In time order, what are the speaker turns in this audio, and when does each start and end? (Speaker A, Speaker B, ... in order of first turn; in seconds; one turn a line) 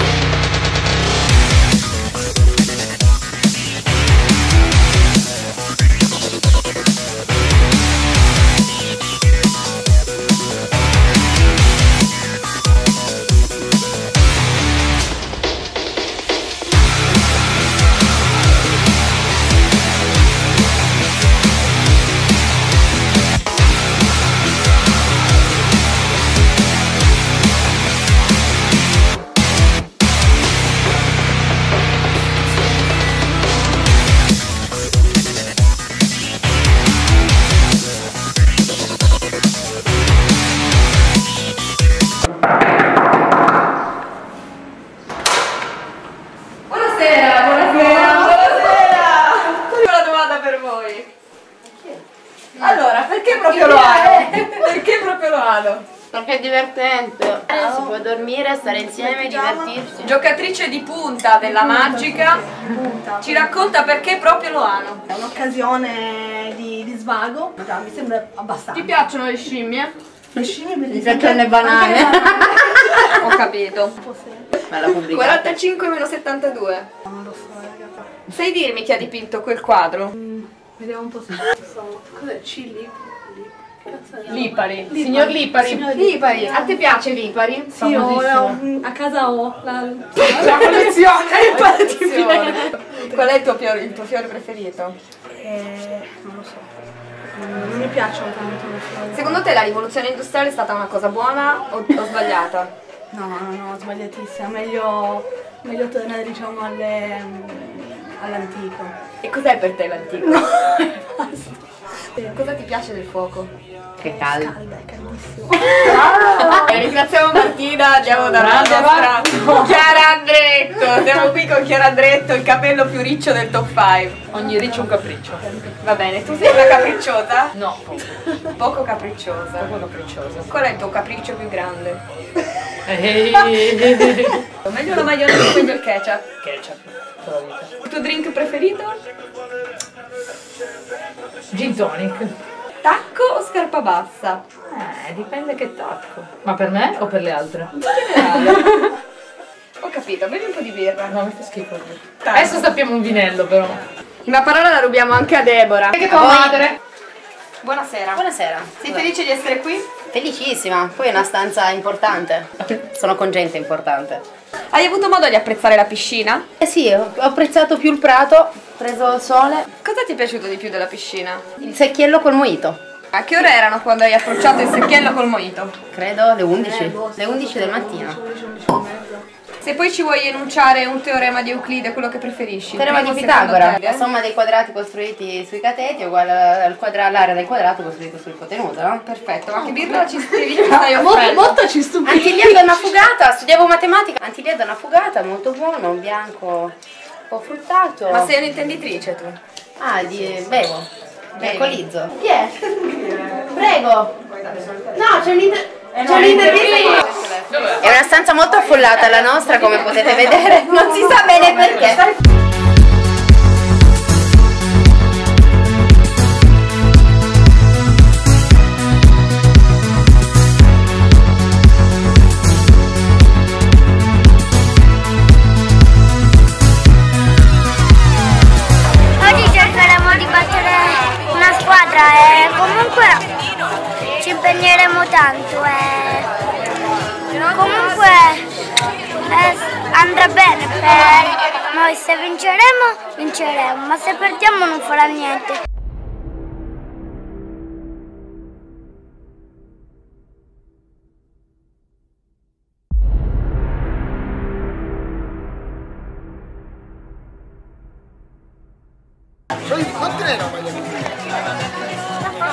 Speaker A: 46.7-51.1
Speaker A: 52.5-55.8
Speaker B: 53.3-54.6
Speaker B: 56.1-60.1
Speaker C: 58.8-59.7
Speaker A: 60.0-62.4
Speaker C: 61.4-63.8
Speaker A: 63.2-65.0
Speaker C: 65.1-68.9
Speaker A: 68.7-69.9
Speaker B: 70.3-73.2
Speaker C: 70.3-73.4
Speaker A: 73.1-74.0
Speaker C: 74.0-74.5
Speaker B: 74.7-75.5
Speaker A: 74.9-76.9
Speaker C: 77.0-78.1
Speaker A: 78.3-80.1
Speaker C: 80.2-86.8
Speaker A: 84.3-85.0
Speaker D: 84.9-85.9
Speaker A: 85.7-88.1
Speaker C: 87.7-93.2
Speaker D: 87.9-88.4
Speaker D: 90.2-91.4
Speaker A: 90.3-95.0
Speaker C: 95.3-96.7
Speaker C: 97.3-99.4
Speaker A: 99.1-102.7
Speaker C: 103.1-109.0
Speaker A: 109.2-110.4
Speaker C: 110.2-111.6
Speaker A: 112.3-113.5
Speaker B: 114.0-114.5
Speaker C: 114.0-116.8
Speaker A: 115.8-124.3
Speaker D: 116.1-116.5
Speaker D: 118.3-119.9
Speaker D: 124.3-125.5
Speaker C: 124.3-126.5
Speaker A: 125.8-127.5
Speaker D: 127.5-128.0
Speaker A: 128.6-129.7
Speaker D: 129.6-130.5
Speaker A: 130.5-132.0
Speaker D: 132.8-134.4
Speaker A: 134.6-136.2
Speaker D: 136.4-137.7
Speaker A: 137.8-139.0
Speaker D: 141.5-142.3
Speaker A: 142.8-144.4
Speaker D: 144.7-148.9
Speaker A: 147.9-148.6
Speaker A: 149.8-151.2
Speaker D: 151.1-153.8
Speaker A: 152.2-152.6
Speaker A: 154.2-156.6
Speaker B: 156.0-156.7
Speaker A: 157.6-158.2
Speaker B: 158.1-159.1
Speaker A: 158.8-159.9
Speaker B: 160.1-164.2
Speaker A: 164.7-166.4
Speaker B: 166.6-169.7
Speaker A: 169.8-171.6
Speaker B: 171.6-172.8
Speaker A: 173.1-175.7
Speaker B: 175.9-178.2
Speaker C: 176.6-179.2
Speaker A: 179.6-184.1
Speaker B: 182.7-189.0
Speaker A: 189.0-191.6
Speaker C: 189.6-192.7
Speaker B: 192.0-196.7
Speaker B: 197.3-198.3
Speaker A: 198.1-199.4
Speaker B: 199.8-202.5
Speaker A: 201.4-201.8
Speaker B: 203.4-204.2
Speaker A: 204.4-204.8
Speaker B: 204.9-212.1
Speaker E: 229.2-233.2
Speaker E: 234.2-236.2
Speaker E: 237.4-238.4
Speaker E: 239.3-245.6